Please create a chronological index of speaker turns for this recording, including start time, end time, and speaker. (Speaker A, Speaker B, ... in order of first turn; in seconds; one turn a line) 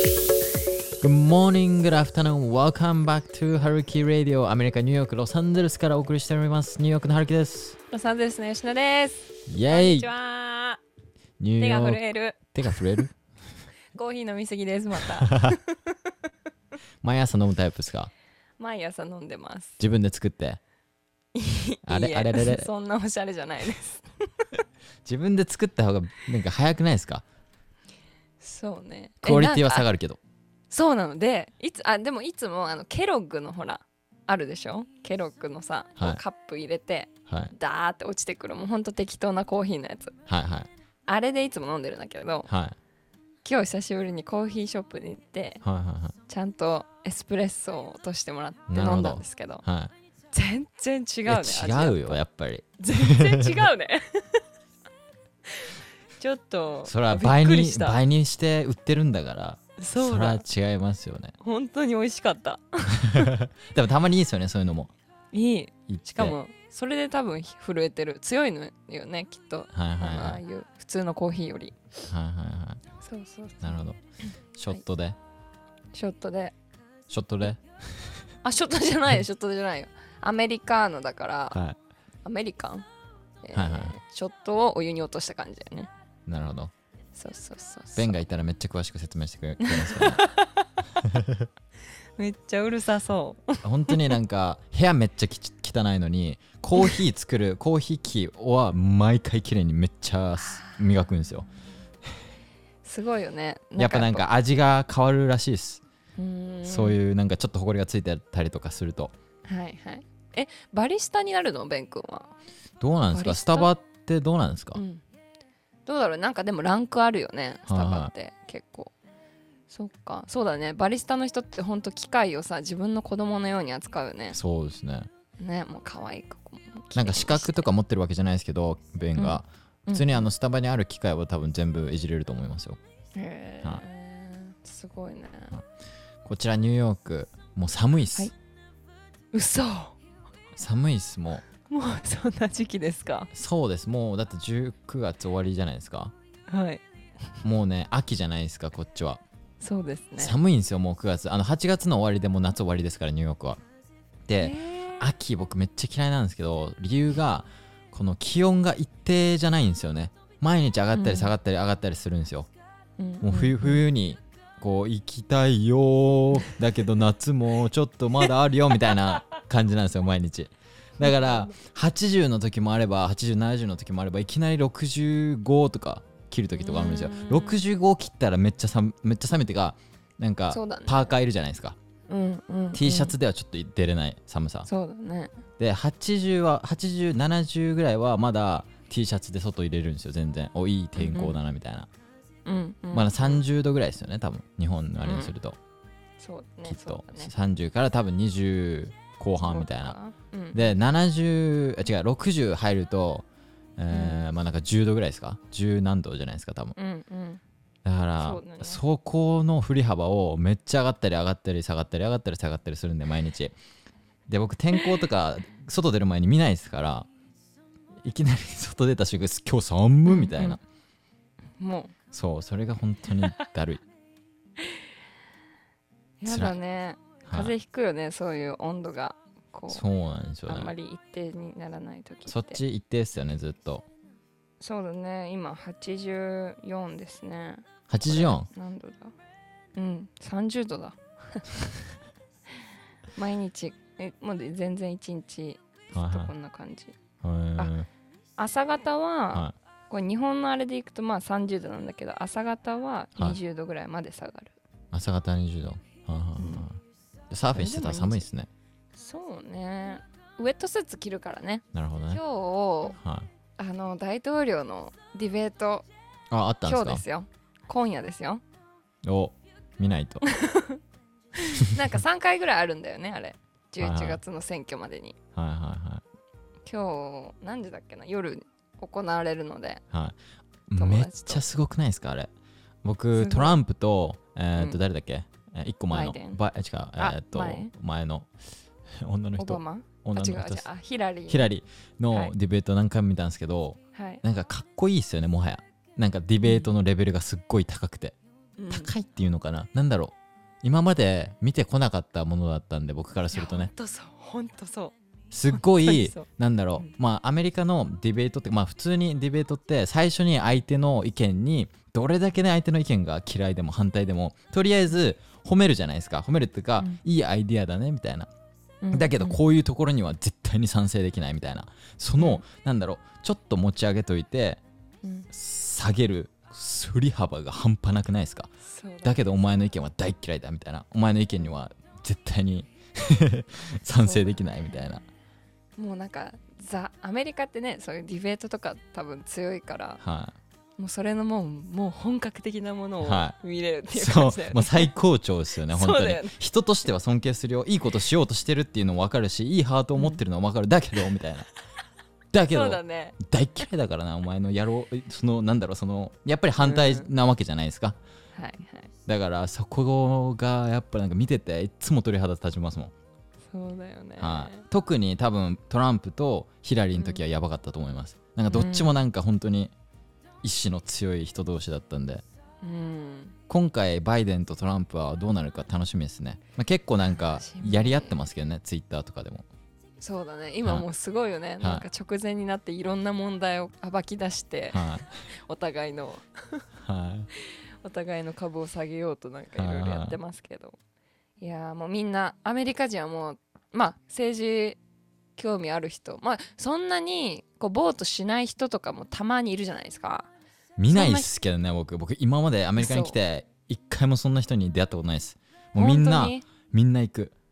Speaker A: 1.0-7.8
Speaker B: 7.9-10.8
Speaker A: 9.5-10.1
Speaker A: 11.4-12.0
Speaker B: 11.6-12.8
Speaker A: 12.6-13.1
Speaker B: 13.9-16.1
Speaker A: 15.0-15.6
Speaker A: 17.0-18.1
Speaker B: 18.6-19.8
Speaker A: 19.8-20.6
Speaker B: 21.4-24.6
Speaker A: 21.9-22.7
Speaker A: 25.1-27.2
Speaker B: 28.4-29.9
Speaker A: 29.2-30.2
Speaker B: 30.7-40.1
Speaker A: 37.3-37.5
Speaker A: 40.3-40.7
Speaker B: 41.1-42.5
Speaker A: 42.5-42.8
Speaker B: 43.5-45.6
Speaker A: 45.6-46.1
Speaker B: 46.3-49.6
Speaker A: 48.7-49.9
Speaker B: 50.3-52.2
Speaker A: 51.3-53.6
Speaker B: 52.8-54.4
Speaker B: 55.5-58.0
Speaker A: 56.8-61.3
Speaker B: 59.8-60.4
Speaker B: 61.4-63.3
Speaker A: 63.0-64.9
Speaker B: 65.3-72.0
Speaker A: 65.9-66.4
Speaker A: 69.7-70.4
Speaker A: 72.1-72.8
Speaker B: 73.0-73.8
Speaker A: 73.6-74.0
Speaker A: 74.5-75.2
Speaker B: 75.9-76.5
Speaker A: 77.1-78.2
Speaker B: 78.4-81.6
Speaker A: 81.5-81.8
Speaker B: 82.2-82.9
Speaker B: 83.4-85.9
Speaker A: 83.5-84.0
Speaker A: 86.3-86.7
Speaker B: 87.2-88.1
Speaker A: 88.0-90.3
Speaker B: 89.6-90.7
Speaker A: 91.0-91.5
Speaker B: 92.2-94.2
Speaker A: 93.6-101.5
Speaker B: 100.5-100.8
Speaker B: 102.8-104.3
Speaker A: 103.8-105.8
Speaker B: 106.2-107.0
Speaker A: 106.6-109.1
Speaker B: 109.4-112.3
Speaker A: 112.8-114.8
Speaker B: 113.1-113.7
Speaker B: 114.7-115.0
Speaker B: 115.9-118.9
Speaker A: 117.7-118.1
Speaker B: 119.7-124.4
Speaker A: 124.3-125.1
Speaker B: 125.4-127.7
Speaker A: 126.9-132.8
Speaker B: 129.2-130.3
Speaker B: 133.2-135.6
Speaker A: 136.2-138.3
Speaker B: 139.3-140.0
Speaker A: 140.6-141.4
Speaker B: 141.6-143.3
Speaker A: 143.3-146.1
Speaker B: 146.5-146.8
Speaker A: 147.4-149.2
Speaker B: 149.6-150.4
Speaker A: 150.2-153.6
Speaker A: 154.3-162.5
Speaker B: 154.4-155.0
Speaker B: 160.9-161.3
Speaker B: 163.0-163.8
Speaker A: 163.2-181.8
Speaker B: 171.0-171.6
Speaker B: 176.6-177.7
Speaker B: 180.5-181.2
Speaker B: 182.1-183.2
Speaker A: 182.7-184.7
Speaker B: 184.7-185.3
Speaker A: 185.6-191.9
Speaker B: 191.0-191.4
Speaker B: 192.5-193.4
Speaker A: 192.9-195.6
Speaker B: 195.0-195.3
Speaker B: 196.2-197.3
Speaker A: 196.7-200.0
Speaker B: 199.4-200.7
Speaker A: 200.5-203.3
Speaker A: 203.8-206.8
Speaker B: 203.9-204.3
Speaker B: 206.8-207.4
Speaker A: 207.8-213.6
Speaker B: 208.2-208.8
Speaker A: 214.3-217.1
Speaker A: 218.0-220.6
Speaker B: 220.1-220.6
Speaker B: 221.6-221.9
Speaker A: 222.1-223.8
Speaker B: 226.2-229.8
Speaker A: 226.3-226.6
Speaker A: 227.3-227.5
Speaker A: 229.7-230.7
Speaker B: 230.5-232.6
Speaker A: 232.3-233.9
Speaker B: 234.6-239.2
Speaker A: 237.9-238.5
Speaker B: 239.8-241.6
Speaker B: 243.2-247.0
Speaker A: 245.9-246.3
Speaker A: 247.2-247.9
Speaker B: 248.4-254.6
Speaker A: 254.9-258.5
Speaker B: 256.4-256.7
Speaker B: 257.5-258.2
Speaker B: 258.9-263.0
Speaker A: 261.7-262.2
Speaker A: 262.9-263.3
Speaker B: 263.6-265.9
Speaker A: 266.3-267.0
Speaker B: 266.6-268.4
Speaker A: 269.0-270.2
Speaker B: 270.2-270.8
Speaker B: 271.4-275.2
Speaker A: 273.8-274.2
Speaker A: 275.4-276.0
Speaker B: 276.7-279.8
Speaker A: 279.9-280.2
Speaker A: 280.7-282.3
Speaker B: 280.8-281.4
Speaker A: 282.8-288.3
Speaker B: 283.1-283.6
Speaker B: 285.9-286.4
Speaker B: 287.0-287.7
Speaker A: 288.9-290.7
Speaker B: 289.4-291.5
Speaker A: 291.3-298.2
Speaker B: 293.9-294.2
Speaker B: 296.4-296.7
Speaker B: 298.6-298.9
Speaker A: 298.7-303.7
Speaker B: 303.3-304.9
Speaker A: 305.3-318.3
Speaker B: 305.5-306.2
Speaker B: 318.8-319.4
Speaker A: 318.9-324.6
Speaker B: 322.2-322.4
Speaker B: 325.0-325.3
Speaker A: 325.3-328.5
Speaker B: 328.6-329.2
Speaker A: 329.0-335.1
Speaker B: 334.0-334.4
Speaker B: 335.8-340.0
Speaker A: 340.0-340.4
Speaker B: 340.8-344.9
Speaker A: 343.0-343.4
Speaker A: 343.9-351.5
Speaker B: 345.7-346.4
Speaker A: 352.3-358.0
Speaker B: 352.5-353.2
Speaker B: 356.6-357.1
Speaker B: 358.4-358.9
Speaker A: 359.1-362.9
Speaker B: 363.5-364.6
Speaker A: 364.2-369.7
Speaker B: 368.5-369.0
Speaker A: 370.4-372.2
Speaker B: 372.6-373.4
Speaker A: 373.5-379.4
Speaker B: 377.1-378.2
Speaker B: 380.0-386.7
Speaker A: 384.7-385.1
Speaker A: 386.8-387.3
Speaker B: 387.4-390.8
Speaker A: 389.6-390.2
Speaker B: 391.4-394.8
Speaker B: 395.4-400.3
Speaker A: 400.8-407.3
Speaker B: 400.9-401.3
Speaker B: 402.8-403.2
Speaker B: 405.8-406.4